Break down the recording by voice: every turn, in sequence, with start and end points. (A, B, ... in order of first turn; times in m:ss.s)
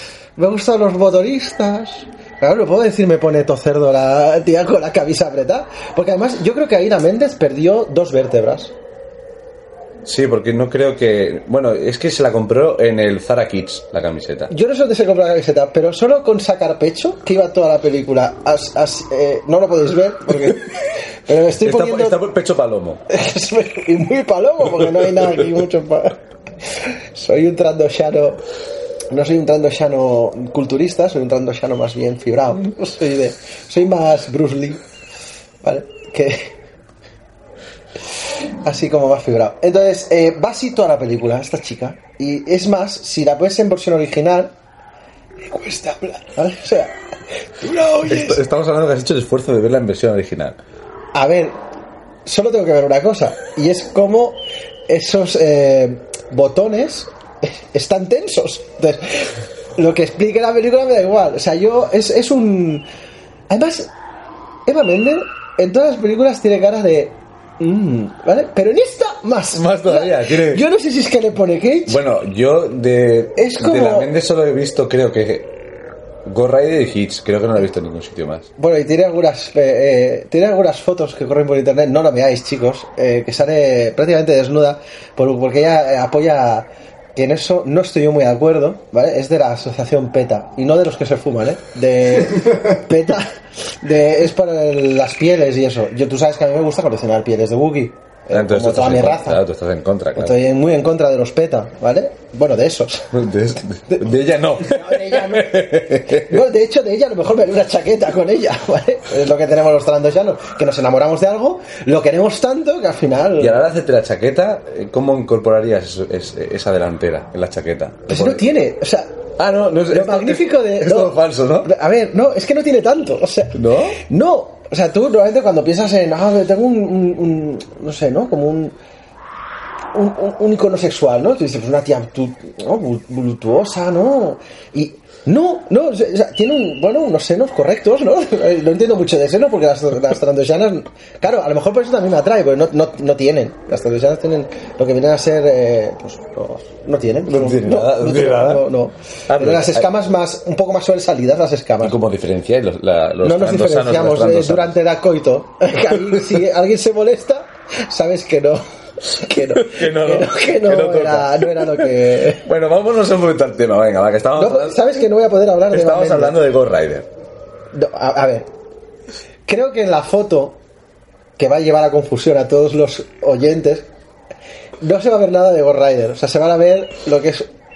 0:00.4-0:08.7 A
0:10.0-0:14.5 B
0:14.5-0:22.2 A
0:21.6-0:23.0 B
0:23.1-0:28.4 A
0:29.1-0:34.8 A
0:35.6-0:36.5 A
0:38.6-0:44.5 A
0:45.4-0:46.9 A
0:47.6-0:48.4 A
0:48.1-0:50.6 B
0:51.1-0:51.6 A
0:52.2-1:02.8 A
1:03.5-1:03.9 A
1:04.6-1:12.0 A
1:09.5-1:10.6 B
1:11.9-1:15.5 B
1:13.4-1:14.1 A
1:16.2-1:18.5 B
1:18.6-1:39.4 A
1:38.3-1:40.4 B
1:40.1-1:43.1 A
1:43.1-1:46.4 B
1:44.6-1:53.6 A
1:53.4-1:58.4 B
1:58.1-1:59.2 A
1:59.4-2:01.7 B
1:59.9-2:08.8 A
2:03.5-2:04.0 B
2:09.9-2:32.0 A
2:27.2-2:28.7 B
2:29.3-2:29.9 B
2:31.8-2:34.8 B
2:33.2-2:42.4 A
2:36.0-2:36.2 B
2:39.4-2:45.1 B
2:44.3-2:46.4 A
2:45.7-2:47.1 B
2:47.7-2:48.5 A
2:49.4-2:50.6 A
2:51.4-2:53.9 A
2:54.8-2:57.5 A